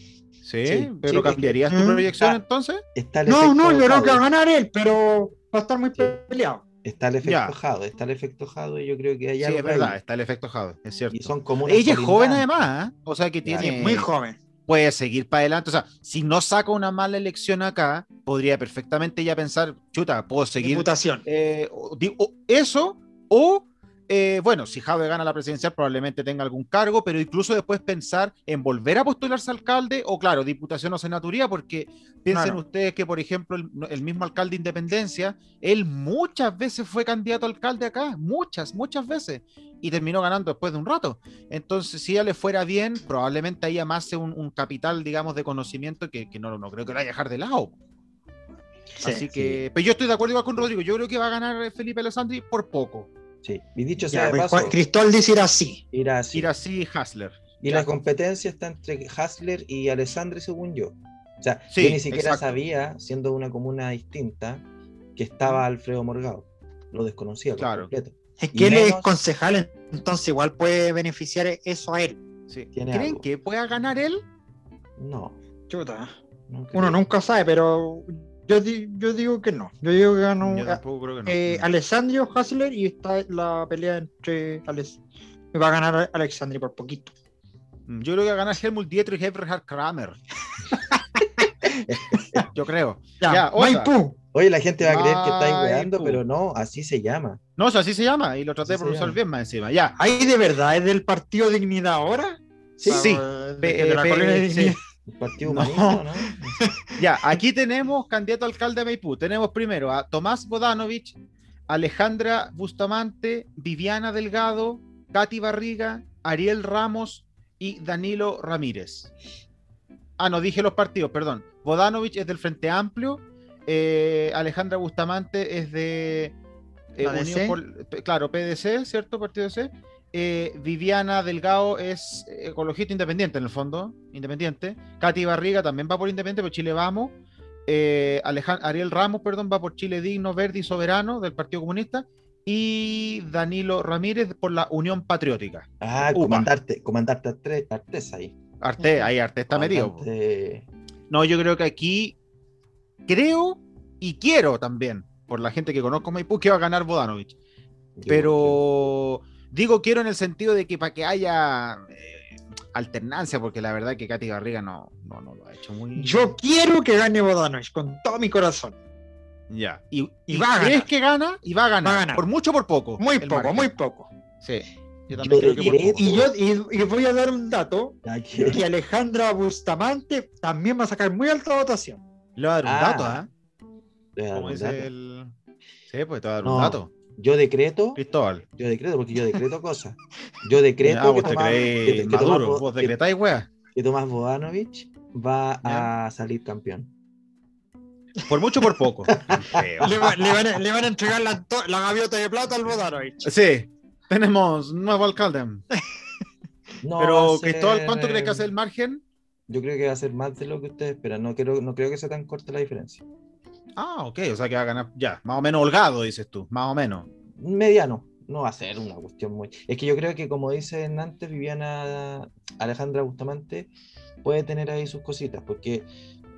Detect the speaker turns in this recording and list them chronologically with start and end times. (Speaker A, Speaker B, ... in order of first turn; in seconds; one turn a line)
Speaker A: 0.4-2.8
Speaker B: 0.6-1.6
Speaker C: 1.7-2.1
Speaker B: 2.9-4.2
Speaker C: 3.3-6.6
Speaker B: 5.9-6.2
Speaker B: 6.8-10.0
Speaker A: 7.2-7.5
Speaker A: 9.4-14.1
Speaker B: 11.1-12.6
Speaker B: 13.4-14.1
Speaker C: 13.6-14.4
Speaker A: 14.7-47.8
Speaker C: 20.6-21.2
Speaker C: 32.3-32.6
Speaker A: 49.0-53.1
Speaker B: 49.3-49.6
Speaker B: 53.4-54.8
Speaker C: 54.1-55.8
Speaker B: 55.9-56.5
Speaker A: 56.3-57.4
Speaker B: 57.6-64.6
Speaker A: 61.7-62.6
Speaker B: 65.2-69.1
Speaker A: 67.6-67.9
Speaker C: 68.4-72.2
Speaker A: 72.5-74.2
Speaker B: 72.7-73.2
Speaker B: 75.0-75.4
Speaker C: 75.7-76.1
Speaker B: 76.5-77.0
Speaker C: 76.7-85.0
Speaker A: 80.4-81.7
Speaker C: 85.5-87.1
Speaker A: 87.9-90.2
Speaker B: 91.4-92.5
Speaker C: 91.6-92.5
Speaker A: 92.5-93.9
Speaker C: 93.2-94.2
Speaker B: 94.3-97.4
Speaker A: 94.8-96.2
Speaker A: 97.6-99.9
Speaker B: 98.6-99.2
Speaker C: 100.0-104.8
Speaker B: 102.8-103.1
Speaker A: 102.9-104.8
Speaker B: 105.1-106.7
Speaker A: 105.4-106.0
Speaker C: 106.6-107.3
Speaker A: 107.0-111.1
Speaker A: 111.7-119.1
Speaker A: 120.2-126.3
Speaker A: 126.9-137.2
Speaker C: 127.0-127.6
Speaker A: 137.7-146.5
Speaker B: 145.8-148.3
Speaker A: 148.6-150.1
Speaker C: 148.8-149.1
Speaker B: 149.5-150.7
Speaker A: 151.1-152.2
Speaker A: 153.1-157.3
Speaker B: 157.9-158.7
Speaker A: 158.1-166.3
Speaker C: 165.9-168.8
Speaker A: 169.5-173.7
Speaker C: 170.3-170.9
Speaker C: 171.8-172.2
Speaker C: 173.0-174.1
Speaker A: 174.4-176.2
Speaker B: 175.1-176.3
Speaker C: 175.6-182.0
Speaker B: 178.0-178.7
Speaker A: 182.4-183.3
Speaker B: 182.6-183.2
Speaker B: 184.2-184.9
Speaker A: 184.3-185.3
Speaker A: 185.9-186.9
Speaker B: 186.4-188.0
Speaker A: 188.0-188.4
Speaker B: 188.6-193.0
Speaker A: 190.8-193.5
Speaker B: 193.7-196.9
Speaker A: 195.6-195.9
Speaker A: 198.3-200.0
Speaker B: 199.1-200.4
Speaker C: 199.8-203.3
Speaker A: 203.2-205.6
Speaker B: 206.8-208.5
Speaker A: 207.0-209.0
Speaker B: 209.5-213.0
Speaker A: 213.8-217.1
Speaker B: 217.3-223.7
Speaker B: 224.2-225.9